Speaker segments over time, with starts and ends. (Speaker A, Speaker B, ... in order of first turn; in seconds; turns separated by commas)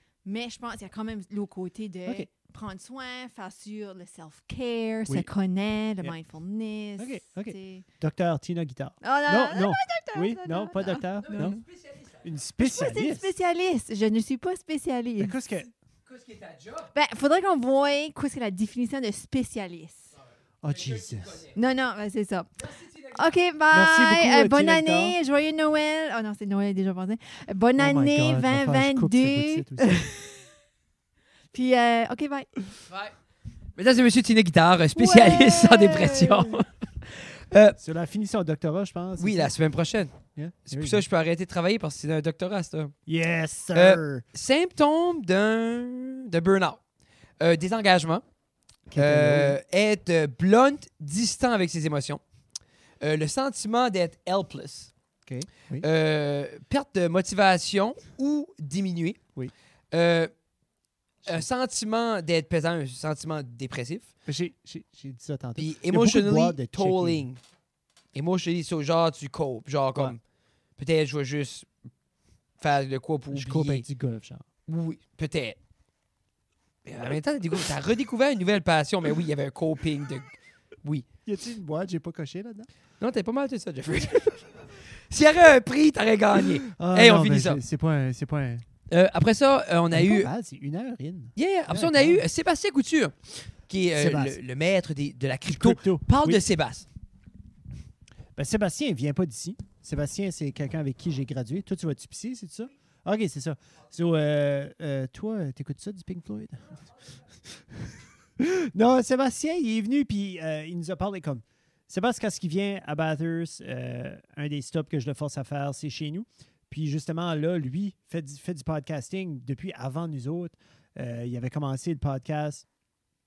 Speaker A: 0.2-7.8, Speaker B: 7.0-11.6, Speaker A: 9.0-11.6, Speaker C: 11.2-12.2, Speaker B: 12.2-13.3, Speaker A: 12.6-15.4, Speaker B: 15.2-15.7, Speaker C: 16.1-16.9, Speaker A: 16.9-20.1, Speaker B: 20.6-21.5, Speaker C: 20.7-21.5, Speaker A: 21.5-30.5, Speaker C: 22.6-23.3, Speaker B: 23.7-25.2, Speaker B: 27.8-30.1, Speaker A: 31.5-32.6, Speaker C: 32.9-33.1, Speaker C: 33.8-37.8, Speaker A: 35.0-36.6, Speaker B: 37.8-39.5, Speaker C: 39.2-40.2, Speaker B: 40.4-41.0, Speaker C: 40.7-42.9, Speaker B: 43.1-44.2, Speaker C: 43.7-46.8, Speaker C: 47.4-48.2, Speaker B: 48.9-49.6, Speaker C: 48.9-52.2, Speaker C: 53.0-54.9, Speaker B: 55.2-55.9, Speaker C: 55.8-59.2, Speaker C: 59.9-60.3, Speaker C: 61.2-64.1, Speaker B: 64.3-67.3, Speaker C: 65.6-67.4, Speaker C: 68.1-70.2, Speaker C: 70.8-71.7, Speaker C: 72.6-73.8, Speaker B: 73.3-74.5, Speaker C: 74.7-75.6, Speaker C: 76.9-81.1, Speaker B: 81.3-82.7, Speaker C: 83.0-87.6, Speaker B: 86.4-88.7, Speaker C: 88.9-90.3, Speaker B: 89.9-92.2, Speaker C: 91.4-96.9, Speaker B: 94.0-94.4, Speaker B: 95.5-96.4, Speaker B: 98.4-106.8, Speaker B: 107.5-122.7